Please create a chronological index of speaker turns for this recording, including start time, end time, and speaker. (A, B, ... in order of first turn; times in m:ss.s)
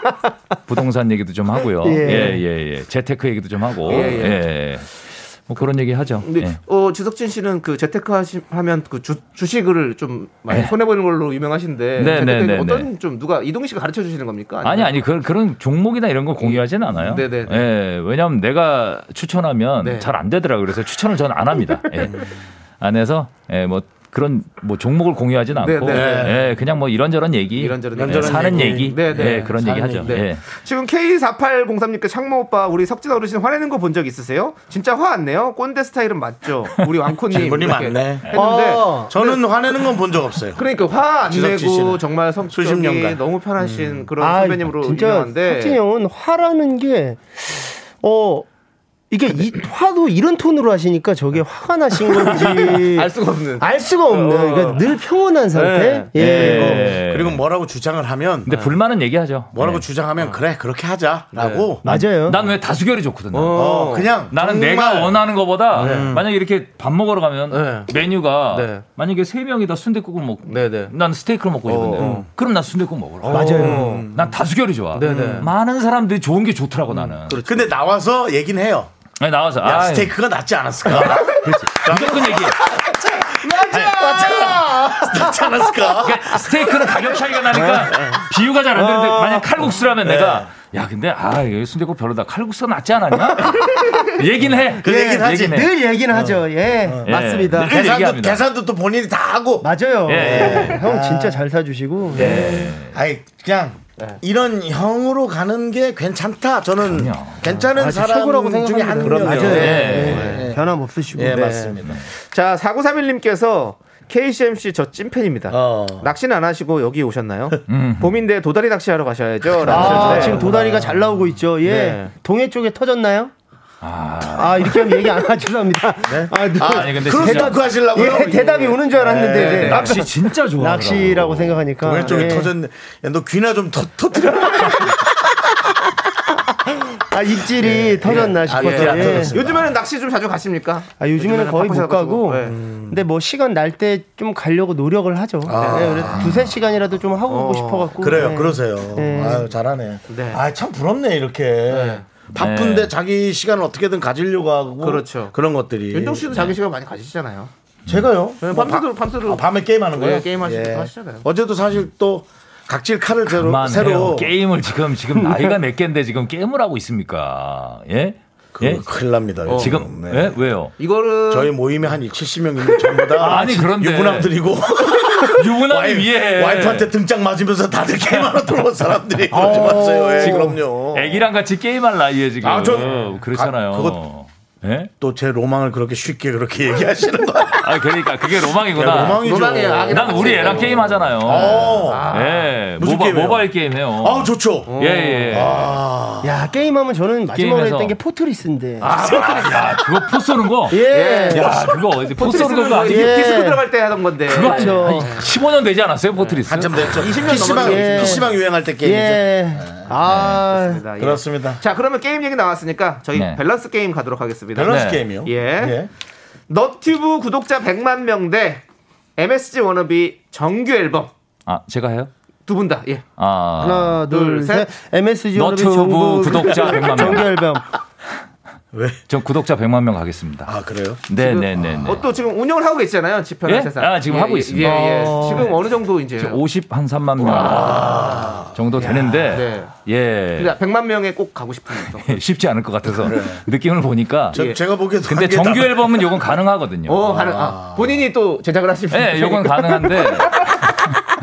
0:00.7-0:06.6 A
0:01.8-0:02.4 B
0:03.8-0:04.4 C
0:06.2-0:14.9 C
0:10.5-0:10.7 A
0:12.0-0:12.9 A
0:14.6-0:22.2 A
0:16.4-0:17.7 C
0:19.8-0:20.1 C
0:22.8-0:30.4 A
0:25.6-0:26.3 C
0:25.9-0:26.5 D
0:27.6-0:39.4 C
0:28.0-0:30.1 D
0:37.3-0:38.4 D
0:38.3-0:39.1 B
0:39.1-0:40.6 D
0:40.6-0:45.8 C
0:41.2-0:43.2 D
0:44.2-0:48.5 B
0:49.1-0:57.0 B
0:52.3-0:52.8 A
0:52.4-0:54.8 C
0:55.5-0:56.5 C
0:56.1-0:57.4 A
0:56.2-0:58.5 D
0:58.5-0:59.8 A
0:58.5-0:58.7 C
0:59.5-1:01.8 D
1:01.3-1:01.7 C
1:01.8-1:02.4 B
1:01.8-1:17.4 A
1:03.3-1:04.1 C
1:03.5-1:05.2 D
1:05.7-1:06.2 D
1:05.7-1:06.2 C
1:07.5-1:07.9 C
1:08.5-1:08.8 C
1:10.5-1:10.9 C
1:11.6-1:12.2 C
1:12.0-1:12.2 D
1:13.2-1:14.0 C
1:13.3-1:14.0 B
1:13.8-1:14.3 D
1:14.9-1:15.5 C
1:15.0-1:15.4 D
1:16.9-1:17.7 C
1:17.4-1:18.9 D
1:19.2-1:20.1 A
1:19.6-1:27.7 D
1:20.9-1:22.6 A
1:23.4-1:25.6 B
1:23.7-1:24.0 A
1:26.0-1:35.7 A
1:27.5-1:28.0 B
1:28.7-1:29.7 B
1:30.0-1:30.5 D
1:33.2-1:34.2 B
1:34.8-1:36.4 D
1:34.8-1:37.8 B
1:37.0-1:38.4 A
1:37.6-1:41.4 D
1:39.6-1:42.7 B
1:40.1-1:40.8 A
1:42.1-1:42.9 A
1:42.2-1:50.6 D
1:46.8-1:47.4 A
1:47.7-1:51.5 B
1:49.0-1:50.4 A
1:49.4-1:50.5 C
1:51.1-1:52.0 D
1:51.3-2:00.5 C
1:55.5-1:56.1 D
1:57.7-1:58.1 A
1:59.6-2:01.0 D
1:59.6-2:03.3 B
1:59.8-2:00.2 A
2:01.6-2:02.1 C
2:03.8-2:05.2 A
2:04.2-2:12.5 B
2:06.1-2:09.8 D
2:06.6-2:07.6 A
2:09.3-2:10.0 C
2:09.4-2:11.6 A
2:11.1-2:15.0 D
2:16.6-2:19.4 B
2:17.4-2:19.7 D
2:18.0-2:22.6 C
2:21.0-2:29.5 B
2:22.4-2:23.0 D
2:25.4-2:26.2 D
2:25.5-2:26.2 C
2:26.1-2:26.6 A
2:27.3-2:28.1 C
2:28.0-2:36.2 D
2:30.1-2:30.4 C
2:31.7-2:32.0 C
2:32.4-2:32.9 A
2:34.8-2:35.3 C
2:35.9-2:37.5 C
2:37.9-2:44.3 D
2:38.4-2:41.2 C
2:43.3-2:48.8 A
2:45.2-2:45.5 B
2:48.6-2:50.4 D
2:49.4-2:49.8 C
2:49.5-2:50.7 A
2:50.8-2:51.6 C
2:51.3-3:01.2 D
2:53.2-2:54.3 A
2:55.4-2:56.9 A
2:59.3-3:00.6 B
3:00.2-3:04.9 A
3:02.4-3:04.0 D
3:02.8-3:03.1 C
3:05.0-3:07.8 D
3:07.6-3:09.3 A
3:08.7-3:12.1 D
3:09.0-3:12.5 C
3:09.9-3:15.8 A
3:12.8-3:13.5 D
3:14.0-3:14.8 D
3:14.7-3:15.5 C
3:15.3-3:16.3 D
3:16.2-3:19.0 B
3:17.3-3:18.0 A
3:18.8-3:19.8 C
3:18.9-3:23.4 A
3:20.7-3:21.5 B
3:20.9-3:21.5 C
3:21.4-3:21.8 D
3:22.1-3:25.2 C
3:22.9-3:23.6 B
3:24.2-3:27.0 A
3:24.4-3:25.2 B
3:26.2-3:28.2 C
3:26.4-3:29.9 D
3:27.2-3:30.8 B
3:30.0-3:30.4 A
3:30.3-3:35.8 C
3:31.0-3:31.6 D
3:33.1-3:33.4 A
3:34.5-3:35.9 D
3:34.6-3:35.0 A
3:36.5-3:38.6 C
3:39.2-3:41.1 C
3:41.4-3:42.1 A
3:42.4-3:43.0 C
3:43.2-3:44.0 A
3:43.6-3:47.7 B
3:44.1-3:44.7 C
3:45.4-3:47.4 A
3:48.7-3:49.0 D
3:49.1-3:50.5 A
3:50.5-3:51.0 D
3:51.1-3:52.0 A
3:51.1-3:56.4 C
3:53.4-3:55.5 A
3:54.6-3:55.5 B
3:56.2-4:00.5 A
3:57.2-3:59.3 D
3:57.3-3:59.7 C
4:00.4-4:02.2 C
4:02.0-4:04.4 A
4:03.0-4:03.4 D
4:04.3-4:05.8 D
4:04.3-4:04.6 C
4:05.0-4:07.4 A
4:06.9-4:10.6 C
4:07.2-4:07.9 D
4:08.9-4:10.9 A